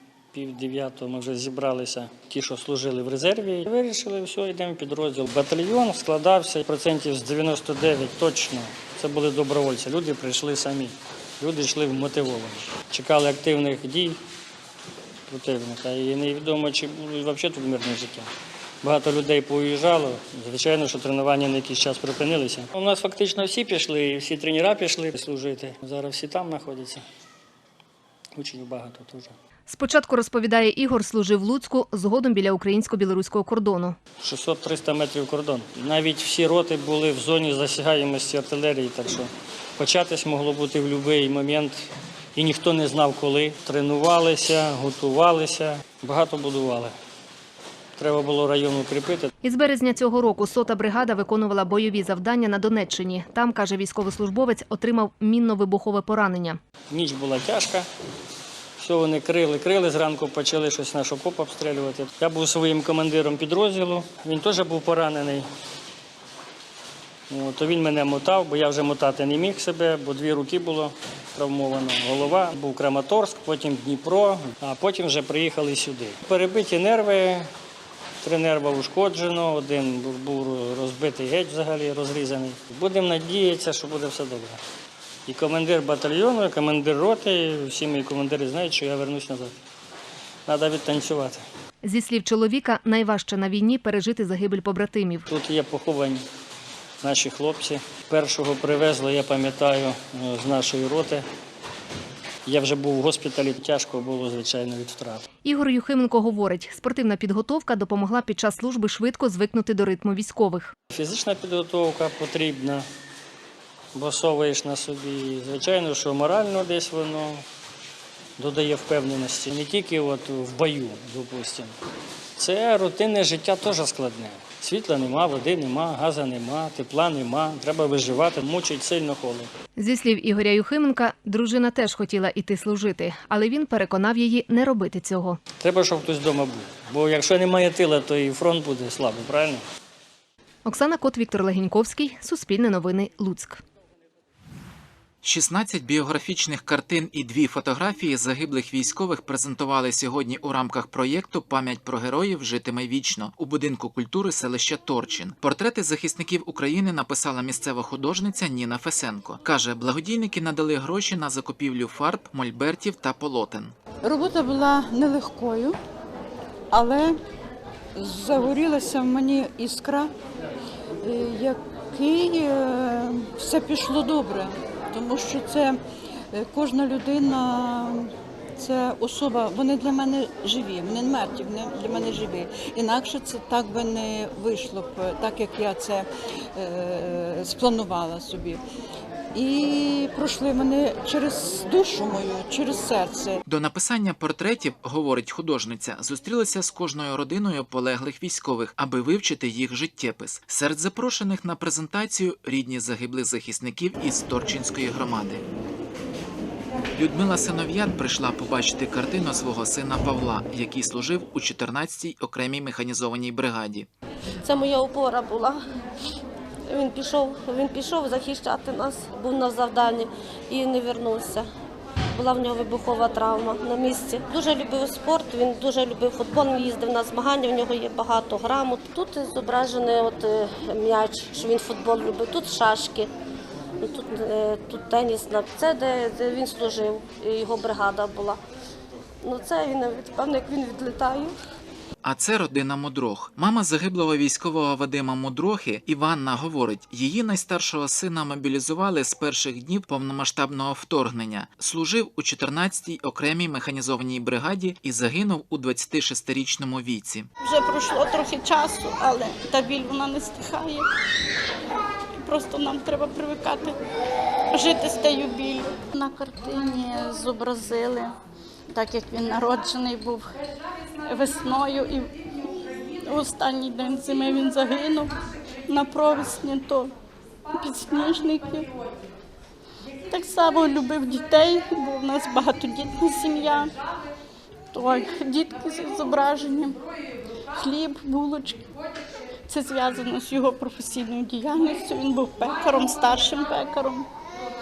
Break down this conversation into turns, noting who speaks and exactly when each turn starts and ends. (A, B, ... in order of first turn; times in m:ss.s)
0:00.3-0:14.2 A
0:15.3-0:18.3 A
0:18.8-0:27.0 A
0:28.3-0:29.3 A
0:29.7-0:33.9 B
0:34.2-0:41.8 A
0:42.3-0:46.9 A
0:48.0-0:49.3 A
0:49.5-0:56.5 B
0:56.9-0:57.9 A
0:58.8-1:05.5 A
1:07.3-1:17.5 A
1:18.2-1:24.6 A
1:25.3-1:29.5 A
1:30.5-1:31.4 A
1:31.9-1:35.2 B
1:35.3-1:36.2 A
1:37.0-1:41.2 A
1:42.4-1:45.2 A
1:45.5-1:50.6 B
1:50.9-1:52.8 A
1:53.9-1:57.4 A
1:58.4-2:01.7 A
2:02.4-2:09.5 A
2:09.8-2:15.4 B
2:15.6-2:19.6 A
2:20.7-2:23.6 B
2:25.2-2:43.7 C
2:44.0-2:45.8 D
2:46.7-2:47.2 D
2:48.0-2:50.1 D
2:51.0-2:55.8 D
2:56.3-3:08.6 D
3:09.3-3:13.4 D
3:13.4-3:25.4 C
3:27.0-3:33.9 C
3:34.4-3:35.6 E
3:36.7-3:41.4 E
3:42.1-3:53.1 E
3:53.8-3:58.4 E
3:59.2-4:01.3 E
4:02.0-4:17.3 C
4:17.4-4:20.9 F
4:22.1-4:23.8 F
4:24.5-4:28.2 F
4:28.7-4:30.3 F
4:31.0-4:36.9 F
4:37.5-4:38.7 F
4:40.1-4:43.7 F
4:44.7-4:46.8 F
4:47.5-4:48.7 F
4:49.5-4:54.1 F